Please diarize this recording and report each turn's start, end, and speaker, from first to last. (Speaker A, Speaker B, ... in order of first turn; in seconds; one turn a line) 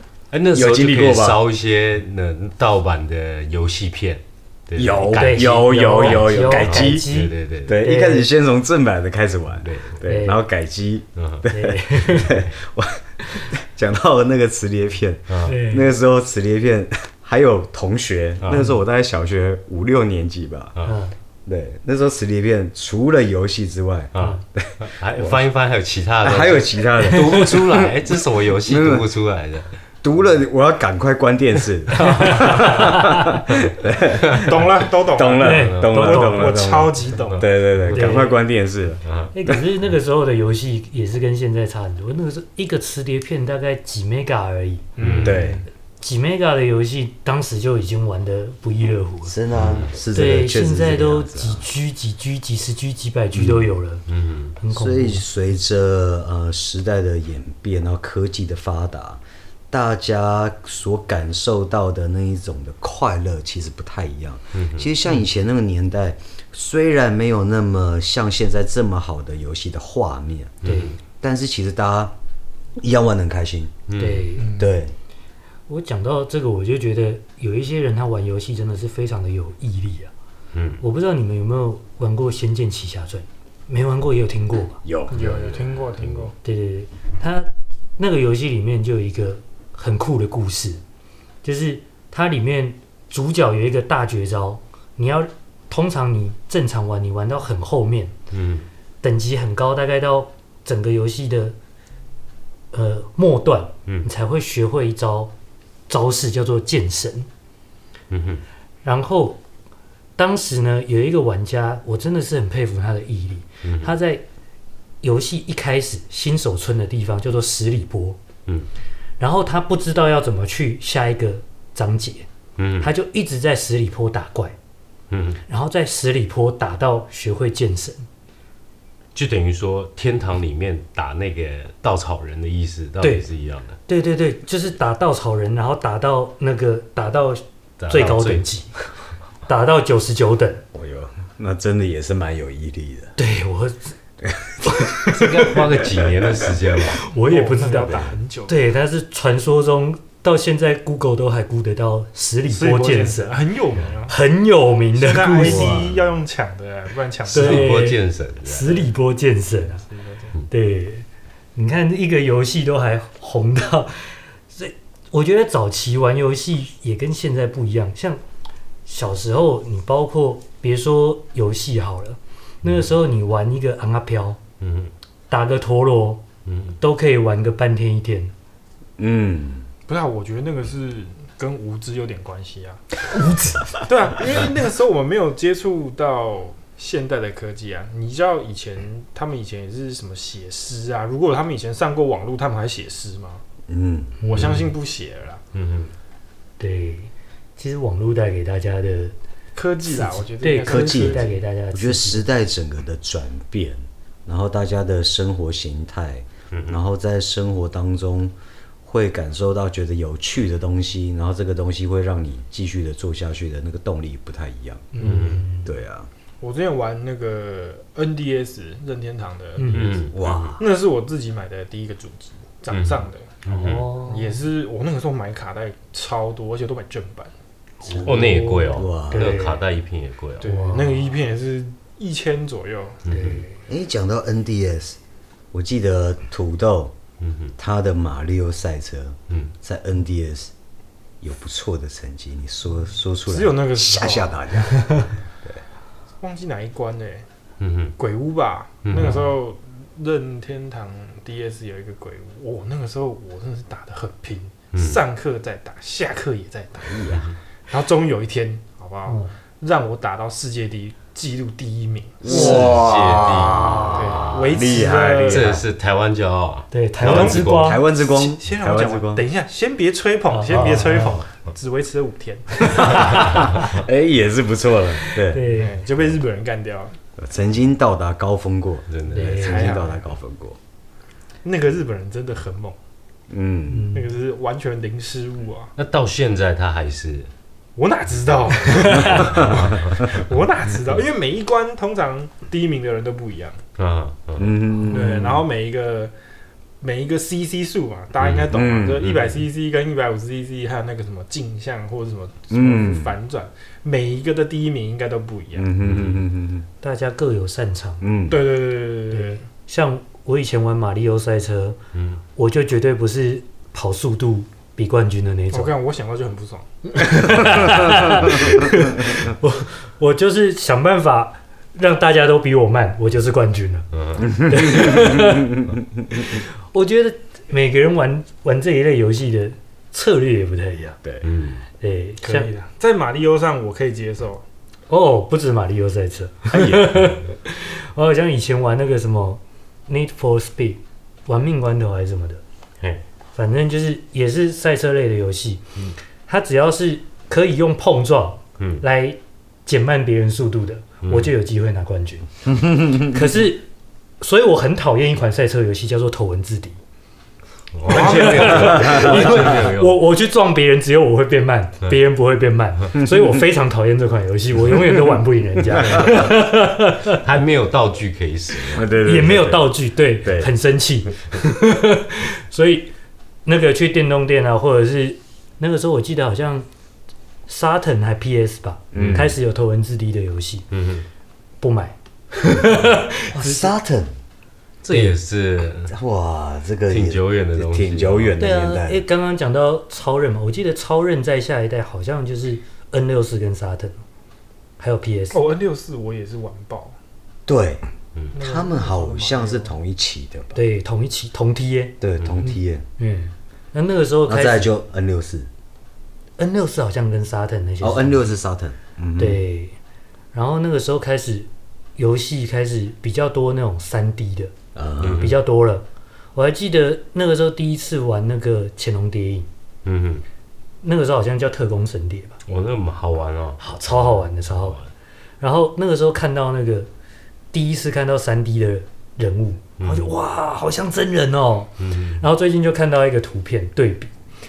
Speaker A: 0.3-7.8
Speaker B: 0.5-1.4
Speaker B: 4.8-7.1
Speaker C: 5.1-8.3
Speaker B: 7.7-20.8
Speaker A: 9.6-10.0
Speaker C: 10.0-10.4
Speaker A: 11.2-11.4
Speaker C: 11.5-12.4
Speaker A: 15.3-15.6
Speaker C: 15.4-15.9
Speaker A: 18.4-18.7
Speaker C: 20.8-21.1
Speaker B: 21.4-25.5
Speaker A: 24.1-29.7
Speaker B: 26.2-29.1
Speaker C: 27.1-27.5
Speaker B: 30.0-39.5
Speaker C: 31.9-33.7
Speaker D: 34.3-37.5
Speaker C: 35.4-36.6
Speaker A: 35.4-38.1
Speaker C: 37.9-38.4
Speaker A: 39.0-39.3
Speaker C: 39.3-44.9
Speaker D: 45.0-45.6
Speaker A: 45.0-45.5
Speaker B: 45.2-45.6
Speaker C: 46.0-49.3
Speaker B: 49.2-51.6
Speaker A: 49.5-49.9
Speaker C: 50.1-54.0
Speaker B: 53.4-53.7
Speaker A: 54.1-54.5
Speaker C: 54.6-55.2
Speaker B: 54.7-70.5
Speaker A: 64.5-64.9
Speaker A: 70.6-71.0
Speaker C: 70.6-71.0
Speaker B: 71.2-72.1
Speaker B: 72.8-73.8
Speaker A: 73.9-74.3
Speaker C: 74.0-74.5
Speaker D: 74.3-74.8
Speaker B: 74.5-74.9
Speaker C: 75.7-80.1
Speaker A: 80.5-80.8
Speaker C: 80.8-84.8
Speaker B: 84.8-85.2
Speaker D: 85.1-86.3
Speaker A: 85.1-86.3
Speaker C: 86.4-90.8
Speaker C: 91.4-98.1
Speaker A: 98.3-98.7
Speaker C: 99.0-101.5
Speaker C: 102.7-105.3
Speaker C: 105.9-107.3
Speaker A: 108.1-108.4
Speaker C: 108.8-109.4
Speaker C: 110.2-114.2
Speaker A: 113.6-113.9
Speaker C: 115.0-118.2
Speaker C: 119.2-122.3
Speaker A: 122.6-122.9
Speaker C: 122.8-124.5
Speaker A: 125.1-125.4
Speaker C: 125.5-128.1
Speaker A: 129.1-133.8
Speaker C: 133.0-133.2
Speaker C: 133.9-138.7
Speaker A: 137.8-138.5
Speaker C: 139.4-140.6
Speaker B: 140.7-143.1
Speaker C: 143.2-143.9
Speaker B: 144.2-144.6
Speaker C: 144.6-145.6
Speaker A: 145.1-147.0
Speaker C: 146.9-153.4
Speaker D: 147.2-148.6
Speaker D: 152.5-154.2
Speaker C: 154.1-155.9
Speaker D: 154.9-157.8
Speaker B: 155.5-155.8
Speaker A: 157.3-158.9
Speaker C: 157.3-159.8
Speaker D: 159.6-160.3
Speaker C: 160.5-168.2
Speaker C: 168.8-174.4
Speaker A: 174.6-174.9
Speaker C: 175.3-176.2
Speaker A: 176.4-176.8
Speaker C: 176.8-178.3
Speaker B: 179.0-179.7
Speaker D: 179.9-182.8
Speaker C: 183.2-183.6
Speaker D: 183.8-193.4
Speaker B: 193.7-194.2
Speaker D: 194.2-195.4
Speaker C: 194.3-194.7
Speaker A: 194.3-194.6
Speaker A: 195.5-195.9
Speaker C: 196.6-199.1
Speaker D: 199.5-201.3
Speaker C: 199.8-202.2
Speaker B: 200.7-208.3
Speaker A: 206.5-206.8
Speaker B: 208.8-214.9
Speaker D: 214.9-215.4
Speaker C: 215.0-215.7
Speaker A: 215.0-215.4
Speaker B: 215.6-216.1
Speaker D: 216.4-220.0
Speaker C: 219.6-219.9
Speaker A: 219.7-220.6
Speaker B: 220.1-220.6
Speaker D: 220.6-227.3
Speaker A: 222.7-223.9
Speaker C: 223.5-224.4
Speaker C: 227.8-229.6
Speaker B: 227.8-229.4
Speaker A: 228.0-230.5
Speaker D: 230.4-233.0
Speaker C: 230.4-231.2
Speaker A: 233.1-233.4
Speaker C: 233.1-233.5
Speaker B: 233.7-235.0
Speaker B: 235.5-236.9
Speaker A: 237.2-237.5
Speaker B: 237.6-240.5
Speaker B: 241.2-245.6
Speaker D: 243.3-244.6
Speaker D: 246.2-247.3
Speaker A: 247.6-247.9
Speaker D: 248.0-262.3
Speaker A: 248.8-249.3
Speaker C: 248.9-249.3
Speaker A: 254.7-255.0
Speaker B: 256.9-257.2
Speaker C: 259.1-259.3
Speaker B: 262.2-265.6
Speaker A: 262.2-267.8
Speaker C: 262.3-262.9
Speaker C: 263.5-264.3
Speaker D: 263.9-265.6
Speaker C: 266.7-267.8
Speaker B: 267.0-269.3
Speaker D: 267.0-273.3
Speaker C: 270.3-271.2
Speaker C: 272.6-273.7
Speaker B: 272.8-275.4
Speaker A: 273.1-273.7
Speaker C: 275.0-275.8
Speaker D: 275.4-276.9
Speaker B: 277.2-280.6
Speaker A: 278.9-279.4
Speaker C: 279.1-279.7
Speaker D: 279.1-280.0
Speaker D: 281.4-282.8
Speaker B: 283.3-283.9
Speaker C: 283.7-284.1
Speaker D: 283.9-285.7
Speaker A: 285.8-287.3
Speaker D: 287.8-293.6
Speaker C: 288.7-289.2
Speaker A: 289.0-290.0
Speaker A: 293.8-294.6
Speaker B: 294.4-295.5
Speaker D: 294.9-296.1
Speaker D: 296.8-305.7
Speaker A: 298.2-299.4
Speaker B: 298.5-299.1
Speaker B: 302.5-303.2
Speaker B: 305.5-306.6
Speaker A: 305.8-306.2
Speaker C: 306.8-308.0
Speaker B: 308.0-308.4
Speaker D: 308.3-309.4
Speaker C: 309.1-311.8
Speaker A: 311.9-312.2
Speaker C: 312.4-315.7
Speaker D: 315.5-317.8
Speaker C: 316.9-323.9
Speaker A: 323.9-324.3
Speaker C: 324.4-325.6
Speaker B: 324.4-326.4
Speaker C: 326.2-331.0
Speaker A: 331.2-331.6
Speaker C: 331.8-332.5
Speaker D: 332.2-334.4
Speaker C: 334.9-342.4
Speaker B: 336.5-337.1
Speaker C: 343.3-345.6
Speaker C: 346.2-352.3
Speaker A: 351.0-351.3
Speaker C: 353.0-353.6
Speaker C: 354.2-356.8
Speaker A: 357.8-360.0
Speaker C: 357.9-367.2
Speaker D: 357.9-358.7
Speaker B: 358.6-359.4
Speaker B: 363.0-363.4
Speaker A: 367.2-368.9
Speaker B: 368.7-369.7
Speaker C: 369.0-372.9
Speaker B: 370.2-370.5
Speaker C: 373.4-376.7
Speaker C: 377.5-380.6
Speaker B: 378.9-379.3
Speaker A: 378.9-379.4
Speaker A: 380.7-381.1
Speaker C: 381.6-383.7
Speaker B: 383.3-384.1
Speaker A: 384.8-385.9
Speaker B: 385.9-389.0
Speaker A: 386.9-388.4
Speaker C: 388.4-394.0
Speaker C: 394.8-395.4
Speaker D: 395.3-397.0
Speaker B: 397.4-400.6
Speaker D: 398.3-399.7
Speaker C: 400.5-404.7
Speaker B: 402.0-402.9
Speaker B: 404.2-405.5
Speaker C: 406.4-408.3
Speaker B: 407.8-409.4
Speaker C: 409.2-409.8
Speaker C: 410.3-414.5
Speaker B: 414.8-415.3
Speaker A: 415.0-415.4
Speaker C: 415.1-419.5
Speaker A: 419.9-420.2
Speaker C: 420.8-422.4
Speaker A: 422.5-424.9
Speaker C: 423.6-424.8
Speaker C: 425.4-426.9
Speaker C: 427.5-434.1
Speaker A: 429.8-430.1
Speaker A: 431.8-432.2